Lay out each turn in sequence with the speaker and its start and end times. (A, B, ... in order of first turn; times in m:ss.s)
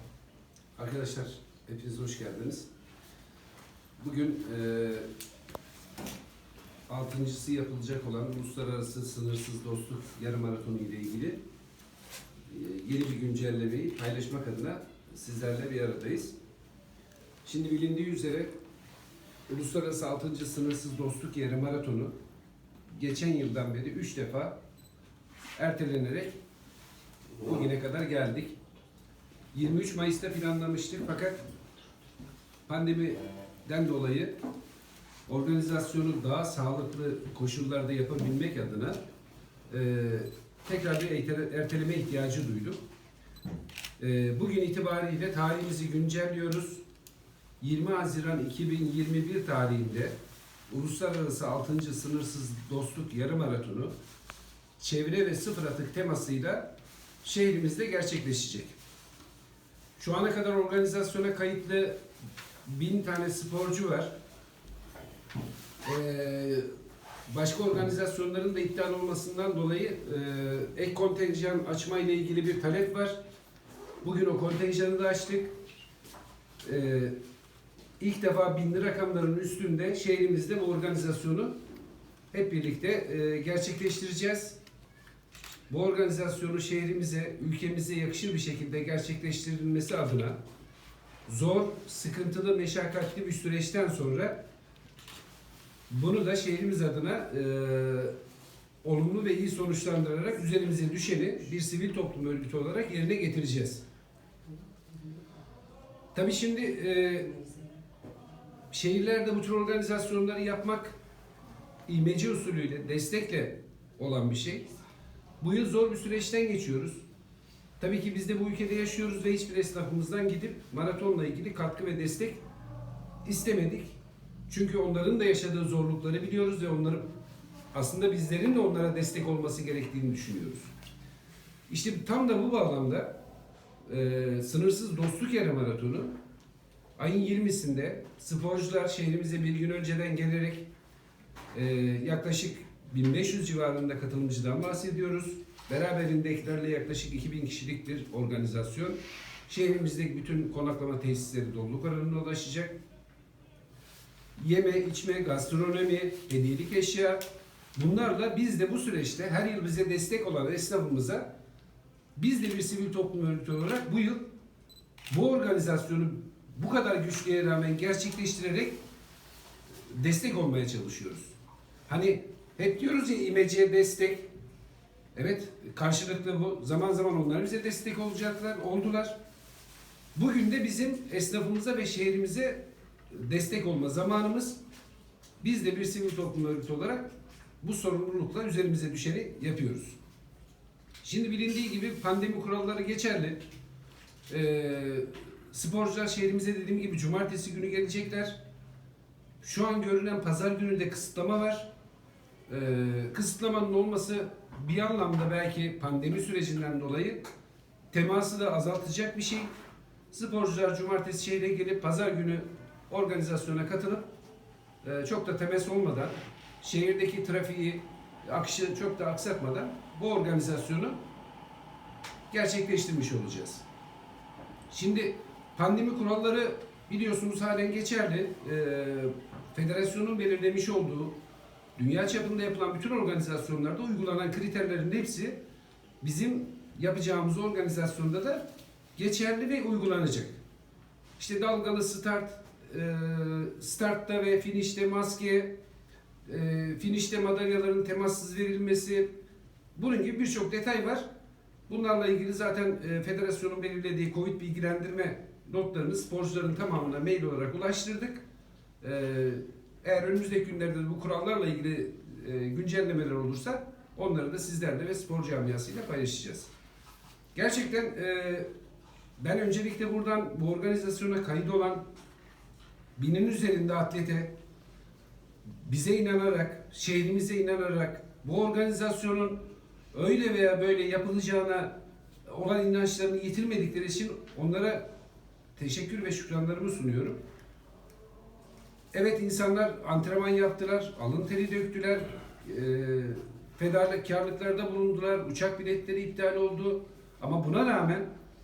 0:00.8-0:02.7 A
0:04.0-0:05.1 A
0:06.9-0:11.4 A
0:12.5-0:16.4 A
0:17.4-0:18.5 A
0:19.5-0:22.1 A
0:22.9-0:24.6 A
0:25.6-0:26.3 A
0:27.4-0:28.6 A
0:29.5-0:31.4 A
0:32.7-0:34.3 A
0:35.3-0:39.0 A
0:39.7-0:42.8 A
0:44.0-0:46.8 A
0:47.6-0:50.1 A
0:50.7-0:53.9 A
0:54.8-0:56.7 A
0:57.2-0:58.8 A
1:00.0-1:02.0 A
1:02.7-1:04.1 A
1:05.8-1:06.7 A
1:07.3-1:13.1 A
1:14.0-1:15.5 A
1:16.6-1:17.1 A
1:18.0-1:21.5 A
1:22.3-1:24.6 A
1:25.7-1:30.4 A
1:31.2-1:34.4 A
1:35.9-1:38.1 A
1:38.8-1:43.8 A
1:46.1-1:47.4 A
1:48.7-1:50.9 A
1:51.9-1:54.7 A
1:55.4-1:57.0 A
1:57.8-2:02.4 A
2:03.2-2:04.0 A
2:04.5-2:07.1 A
2:07.7-2:10.7 A
2:11.7-2:13.1 A
2:13.9-2:16.1 A
2:17.0-2:20.7 A
2:21.5-2:32.8 A
2:34.4-2:37.2 A
2:37.8-2:41.3 A
2:42.2-2:44.2 A
2:45.1-2:48.8 A
2:49.9-2:51.3 A
2:51.9-2:54.2 A
2:55.2-2:59.2 A
3:00.2-3:04.6 A
3:05.4-3:07.0 A
3:07.6-3:10.0 A
3:11.0-3:13.4 A
3:14.3-3:18.4 A
3:19.4-3:21.7 A
3:22.5-3:27.2 A
3:27.9-3:29.5 A
3:30.1-3:34.0 A
3:34.8-3:41.0 A
3:42.3-3:43.6 A
3:44.7-3:51.2 A
3:51.8-3:55.4 A
3:56.0-3:58.4 A
3:59.0-4:00.4 A
4:01.2-4:05.6 A
4:06.3-4:09.1 A
4:09.8-4:11.0 A
4:11.7-4:18.2 A
4:18.8-4:26.5 A
4:27.3-4:28.5 A
4:29.2-4:31.8 A
4:33.0-4:34.3 A
4:35.6-4:39.4 A
4:39.9-4:41.7 A
4:42.2-4:44.8 A
4:45.6-4:47.2 A
4:48.9-4:58.1 A